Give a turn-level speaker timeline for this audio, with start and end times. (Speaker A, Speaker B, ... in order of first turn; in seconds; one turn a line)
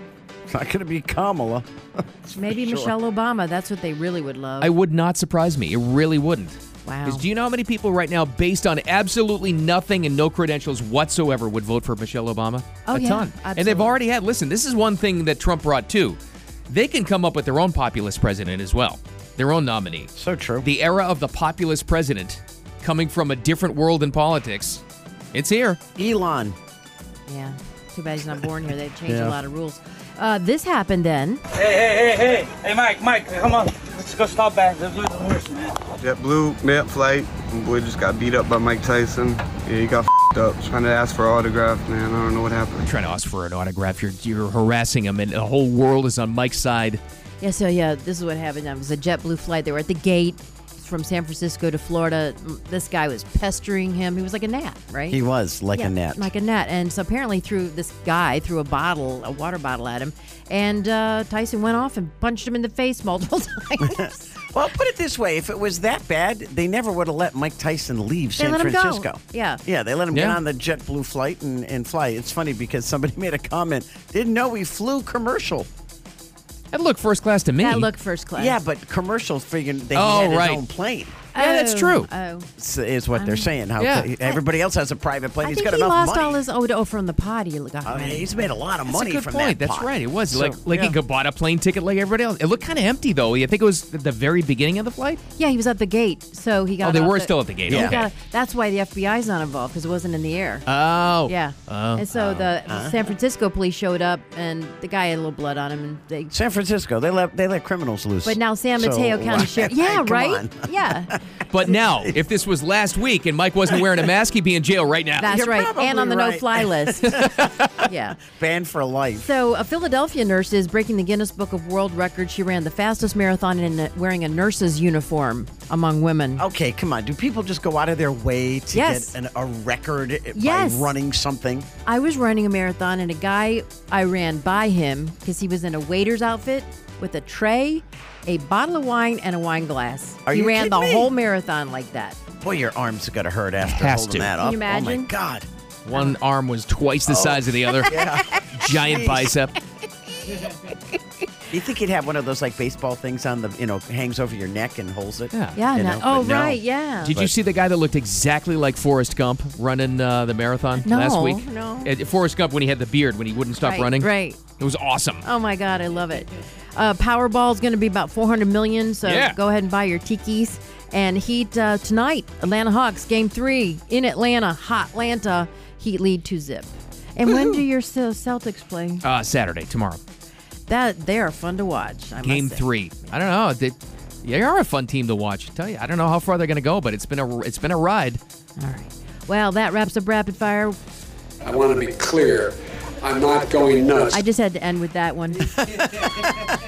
Speaker A: 0.5-2.9
Speaker B: 2.4-4.7
Speaker C: 4.6-16.2
Speaker B: 6.8-7.2
Speaker B: 12.9-14.0
Speaker C: 16.7-24.8
Speaker A: 20.2-20.7
Speaker C: 25.3-25.8
Speaker A: 26.0-26.6
Speaker B: 27.3-31.4
Speaker A: 29.1-29.4
Speaker D: 31.6-35.7
Speaker E: 36.0-42.9
Speaker C: 42.8-47.0
Speaker B: 47.4-55.2
Speaker A: 55.1-56.3
Speaker B: 55.7-64.3
Speaker A: 63.8-75.7
Speaker B: 68.4-69.6
Speaker C: 70.1-70.4
Speaker C: 76.7-77.9
Speaker B: 77.6-78.6
Speaker A: 78.4-81.2
Speaker C: 80.0-80.6
Speaker C: 81.3-82.1
Speaker B: 81.3-82.5
Speaker A: 82.6-86.4
Speaker B: 83.1-83.5
Speaker C: 83.8-84.1
Speaker B: 85.4-88.5
Speaker A: 87.8-91.0
Speaker C: 88.9-95.2
Speaker B: 95.4-100.7
Speaker C: 96.8-98.1
Speaker A: 97.7-98.0
Speaker C: 100.7-102.0
Speaker B: 101.3-106.3
Speaker A: 102.1-103.0
Speaker A: 106.3-112.1
Speaker B: 108.2-111.2
Speaker C: 111.5-115.3
Speaker B: 115.2-117.2
Speaker A: 115.3-119.3
Speaker C: 117.1-117.7
Speaker B: 117.8-118.2
Speaker B: 119.1-126.4
Speaker A: 126.4-131.7
Speaker B: 128.7-129.1
Speaker B: 130.3-130.9
Speaker B: 131.8-142.2
Speaker A: 140.3-141.1
Speaker A: 142.4-145.5
Speaker C: 143.6-144.3
Speaker B: 144.4-145.1
Speaker C: 145.9-149.6
Speaker A: 147.1-149.3
Speaker B: 147.9-148.5
Speaker B: 150.3-150.8
Speaker A: 151.5-157.3
Speaker C: 155.3-155.6
Speaker B: 155.6-157.2
Speaker C: 157.0-165.2
Speaker B: 160.8-161.9
Speaker B: 163.6-164.4
Speaker B: 165.2-179.0
Speaker C: 169.1-169.4
Speaker C: 179.0-180.0
Speaker B: 180.7-182.6
Speaker C: 182.2-188.2
Speaker B: 188.6-190.8
Speaker F: 191.4-194.2
Speaker B: 194.1-196.2